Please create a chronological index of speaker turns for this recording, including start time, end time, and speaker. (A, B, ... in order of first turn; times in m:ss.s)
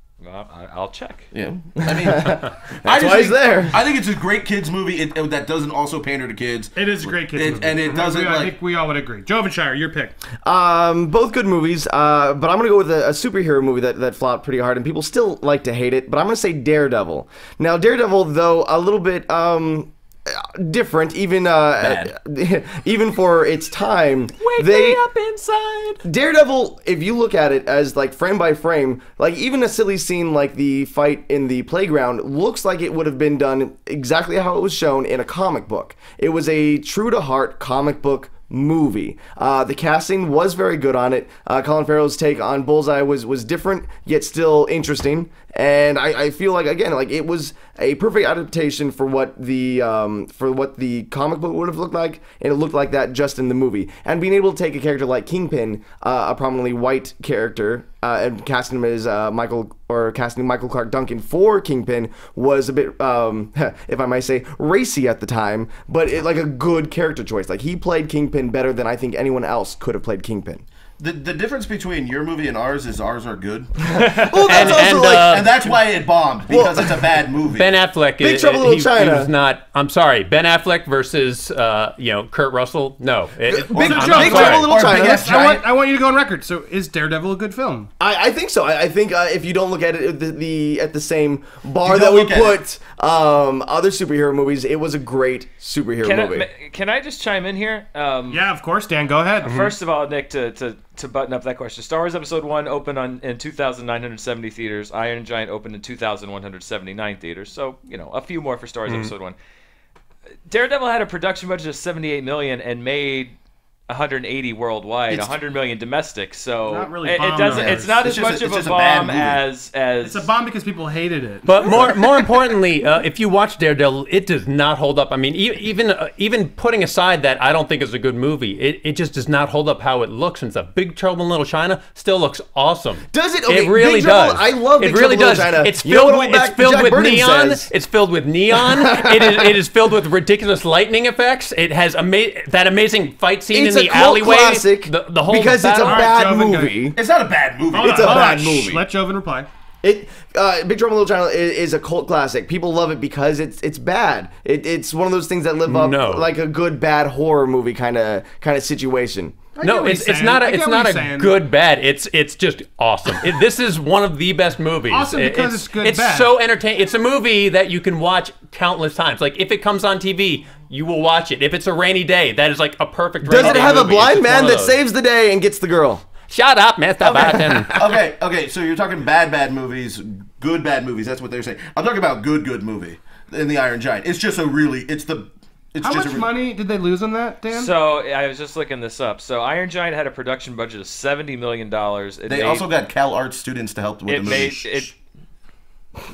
0:00.2-0:01.3 A
0:01.3-0:08.5 B
0:01.8-0:03.8 C
0:06.8-0:10.2 D
0:10.4-0:25.0 C
0:24.4-0:26.0 E
0:26.0-1:10.6 C
1:11.0-1:17.8 B
1:14.0-1:15.5 C
1:14.4-1:15.7 E
1:16.5-1:17.2 C
1:17.5-1:24.8 E
1:18.2-1:19.3 C
1:23.4-1:25.6 C
1:23.7-1:25.6 B
1:23.7-1:27.9 D
1:28.0-1:36.5 C
1:31.8-1:32.6 B
1:36.0-1:38.4 A
1:38.3-1:39.7 D
1:39.4-1:49.4 A
1:39.4-1:39.7 E
1:48.9-1:49.1 E
1:50.5-1:53.3 A
1:53.9-2:00.3 A
1:55.1-1:55.4 B
1:56.7-1:58.0 D
1:57.5-1:59.4 B
2:00.0-2:02.0 D
2:01.5-2:26.1 E
2:13.1-2:17.7 C
2:18.5-2:19.6 C
2:23.5-2:27.0 C
2:25.8-2:26.8 D
2:27.0-2:28.5 B
2:27.7-2:29.5 D
2:27.8-2:28.8 C
2:29.8-2:39.5 C
2:35.6-2:36.3 E
2:39.6-2:41.4 D
2:39.6-2:54.8 E
2:44.9-2:46.3 D
2:53.2-2:56.1 C
2:56.3-2:57.8 E
2:57.0-2:57.8 C
2:57.4-3:06.3 B
3:05.8-3:07.7 D
3:07.5-3:12.7 A
3:12.3-3:14.9 B
3:14.1-3:15.0 A